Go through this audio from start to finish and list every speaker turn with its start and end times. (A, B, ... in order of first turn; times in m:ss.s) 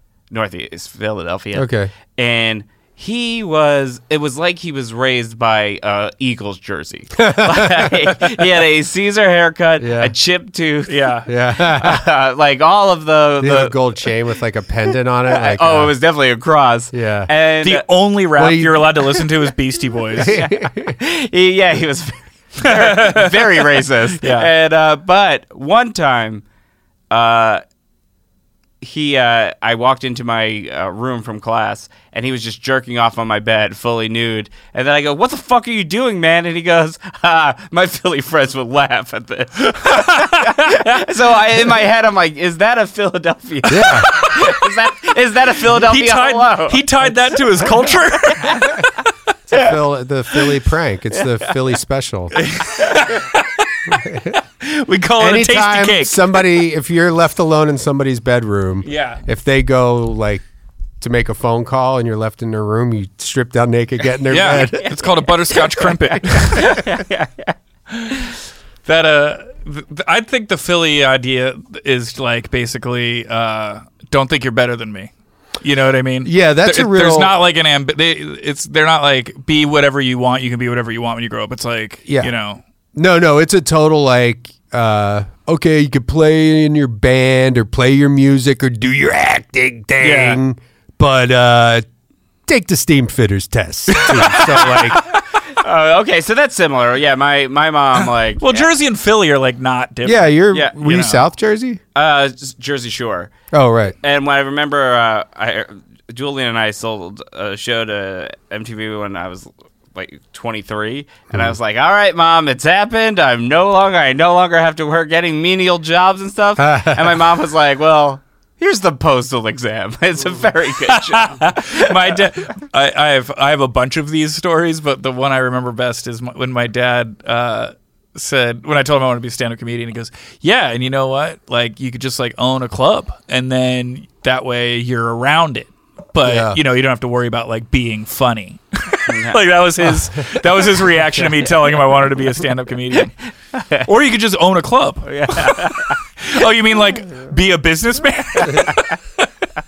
0:00.3-0:13.8 A
0:01.5-0:01.9 B
0:07.2-0:08.0 B
0:09.8-0:10.1 B
0:10.9-0:11.3 C
0:11.3-0:12.0 B
0:13.4-0:15.9 B
0:15.3-0:17.8 A
0:16.9-0:17.3 B
0:17.6-0:20.4 C
0:18.4-0:18.9 B
0:20.2-0:21.0 B
0:20.2-0:26.4 A
0:22.6-0:24.5 C
0:27.1-0:27.6 A
0:28.8-0:46.8 A
0:39.7-0:41.0 C
0:43.7-0:44.1 B
0:45.7-0:48.9 C
0:48.3-0:48.7 A
0:49.5-0:52.4 B
0:51.2-0:51.5 A
0:52.3-0:54.0 C
0:53.9-0:54.4 B
0:54.6-0:56.4 C
0:55.2-1:00.4 B
0:58.8-0:59.2 C
1:01.0-1:05.0 B
1:04.3-1:06.8 C
1:04.5-1:07.5 A
1:07.9-1:08.2 C
1:08.8-1:22.6 C
1:16.2-1:17.4 B
1:22.0-1:22.3 B
1:22.9-1:31.8 B
1:30.0-1:30.4 C
1:32.5-1:35.0 B
1:33.9-1:34.8 C
1:34.4-1:38.7 A
1:38.4-1:41.2 C
1:40.0-1:41.8 B
1:40.5-1:40.8 A
1:41.9-1:43.3 A
1:43.5-1:44.0 B
1:44.0-2:02.2 A
1:56.6-1:57.2 B
2:00.9-2:23.1 C
2:16.2-2:16.6 B
2:19.1-2:19.4 A
2:23.5-2:23.9 A
2:23.8-2:29.2 C
2:25.0-2:26.0 A
2:28.5-2:28.9 A